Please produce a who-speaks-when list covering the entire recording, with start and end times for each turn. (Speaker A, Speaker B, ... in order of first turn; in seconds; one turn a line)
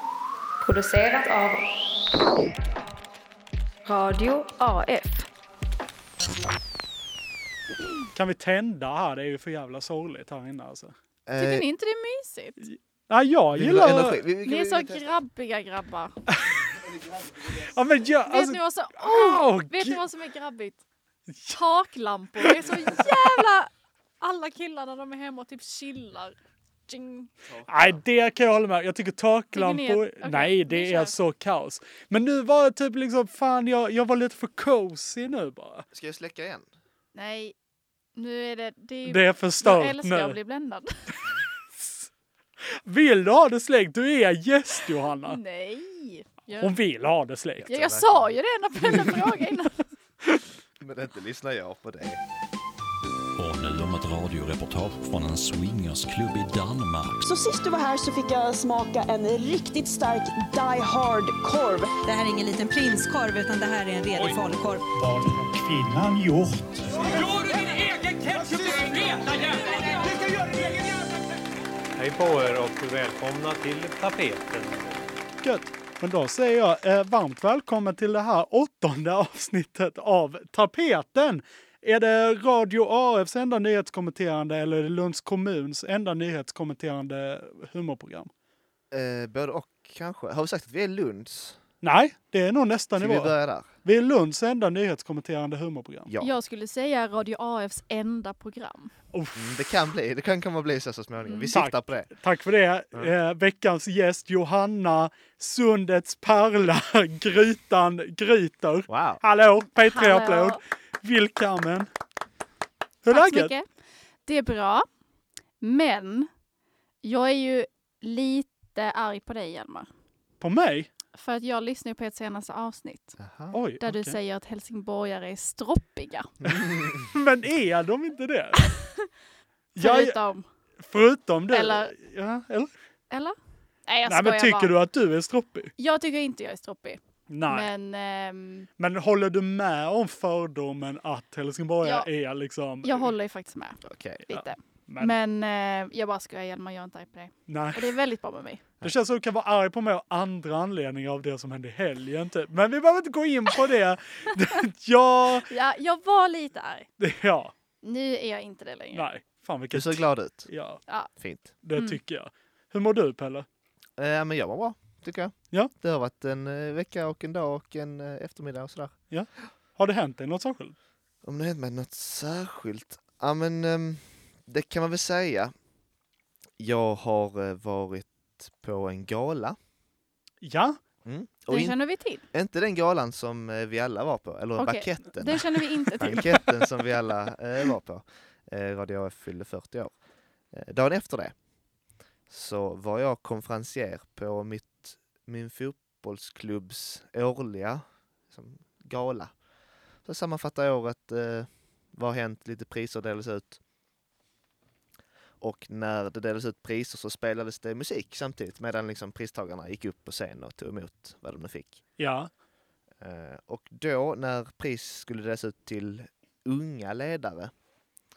Speaker A: 0.6-2.6
Speaker A: 3.9-5.3
Speaker B: 8.2-10.9
Speaker C: 11.3-11.7
Speaker D: 11.4-12.6
Speaker B: 12.6-14.2
Speaker C: 13.5-15.0
Speaker D: 14.4-16.2
Speaker B: 16.3-16.6
Speaker B: 17.4-20.0
Speaker D: 18.3-20.8
Speaker D: 21.5-23.7
Speaker B: 22.4-23.4
Speaker D: 24.2-26.4
Speaker D: 26.9-27.3
Speaker C: 27.5-28.0
Speaker B: 27.7-35.9
Speaker D: 29.5-31.1
Speaker C: 35.9-36.7
Speaker D: 37.1-37.5
Speaker D: 38.2-40.9
Speaker B: 39.1-40.4
Speaker B: 41.8-42.1
Speaker B: 42.7-45.4
Speaker D: 45.2-46.7
Speaker B: 46.6-47.7
Speaker C: 47.6-48.4
Speaker D: 47.7-49.8
Speaker C: 50.8-52.2
Speaker E: 53.4-57.3
Speaker F: 57.2-61.9
Speaker G: 62.0-64.9
Speaker B: 65.0-67.0
Speaker H: 67.1-69.2
Speaker H: 72.0-75.1
Speaker B: 75.4-88.3
Speaker C: 88.9-91.6
Speaker B: 91.8-96.1
Speaker C: 93.0-93.7
Speaker D: 96.2-98.9
Speaker B: 99.1-99.5
Speaker C: 99.3-102.1
Speaker D: 101.2-101.5
Speaker B: 101.5-111.9
Speaker C: 108.9-109.2
Speaker D: 109.8-110.6
Speaker B: 113.0-113.5
Speaker D: 113.1-113.7
Speaker D: 114.3-114.9
Speaker D: 115.6-116.3
Speaker D: 117.0-119.9
Speaker B: 120.4-120.9
Speaker D: 121.2-123.2
Speaker C: 123.2-123.6
Speaker B: 123.5-124.2
Speaker D: 123.8-126.6
Speaker C: 126.4-127.0
Speaker B: 127.1-128.7
Speaker D: 128.8-129.1
Speaker B: 129.8-130.2
Speaker D: 129.8-130.4
Speaker B: 130.8-132.7
Speaker D: 131.5-131.9
Speaker D: 133.9-134.7
Speaker B: 134.1-135.7
Speaker D: 135.8-138.7
Speaker B: 137.3-137.7
Speaker B: 138.8-143.1
Speaker D: 141.8-142.1
Speaker D: 142.8-148.6
Speaker C: 143.8-144.2
Speaker B: 144.3-145.2
Speaker B: 147.5-148.0
Speaker B: 148.8-155.5
Speaker D: 155.5-156.9
Speaker B: 157.0-157.5
Speaker D: 157.8-159.1
Speaker B: 158.9-160.8
Speaker C: 159.7-160.5
Speaker C: 161.2-161.5
Speaker B: 161.6-163.5
Speaker D: 161.7-162.0
Speaker C: 164.0-168.9
Speaker B: 169.1-170.8
Speaker C: 171.2-175.5
Speaker C: 176.6-179.6
Speaker B: 180.4-180.8
Speaker C: 181.1-181.8
Speaker D: 181.5-182.2
Speaker C: 182.3-190.0
Speaker D: 184.6-186.6
Speaker C: 190.5-191.3
Speaker C: 192.3-199.3
Speaker C: 200.1-203.6
Speaker C: 205.4-211.8
Speaker B: 212.0-212.3
Speaker C: 213.0-217.5